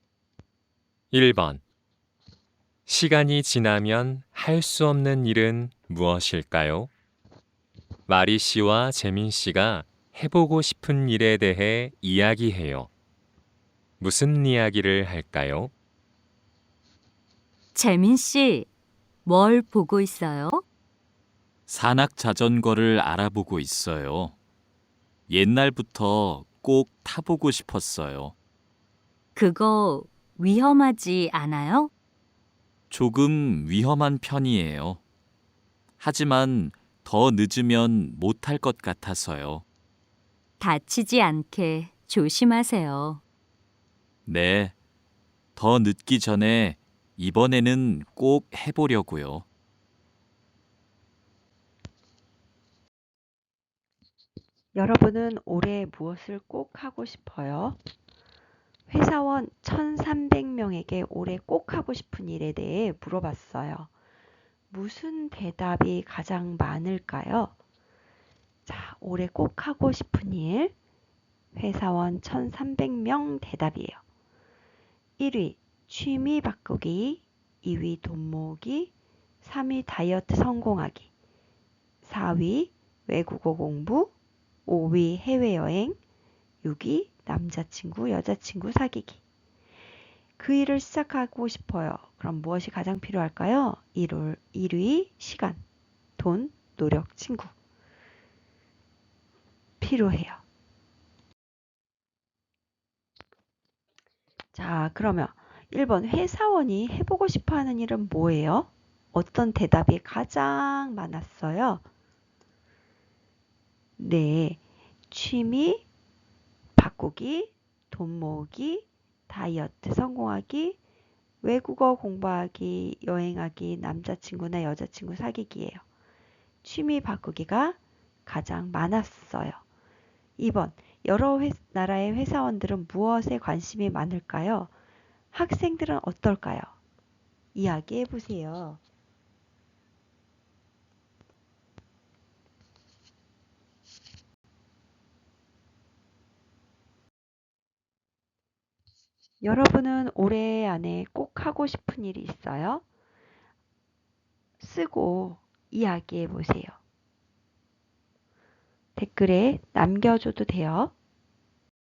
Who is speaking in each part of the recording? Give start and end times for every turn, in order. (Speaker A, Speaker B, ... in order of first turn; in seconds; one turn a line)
Speaker A: 1.1-1.6
Speaker A: 2.9-6.9
Speaker A: 8.1-12.9
Speaker A: 14.0-15.7
Speaker B: 17.7-18.7
Speaker B: 19.2-20.6
Speaker C: 21.7-24.4
Speaker C: 25.3-28.3
Speaker B: 29.3-31.9
Speaker C: 32.9-35.0
Speaker C: 36.0-39.6
Speaker B: 40.6-43.2
Speaker C: 44.2-44.7
Speaker C: 45.5-49.5
Speaker D: 54.7-57.8
Speaker D: 58.9-63.9
Speaker D: 64.7-67.5
Speaker D: 68.6-70.7
Speaker D: 71.5-74.0
Speaker D: 75.2-78.9
Speaker D: 79.4-81.1
Speaker D: 82.0-84.1
Speaker D: 84.7-86.0
Speaker D: 86.6-89.2
Speaker D: 90.4-95.6
Speaker D: 96.2-97.5
Speaker D: 99.8-100.4
Speaker D: 104.5-111.8
Speaker D: 114.0-115.8
Speaker D: 116.8-120.8
Speaker D: 121.4-125.8
Speaker D: 126.6-129.6
Speaker D: 130.4-134.7
Speaker D: 135.3-136.7
Speaker D: 137.5-138.8
Speaker D: 149.4-152.8
Speaker D: 154.6-156.8
Speaker D: 158.9-160.9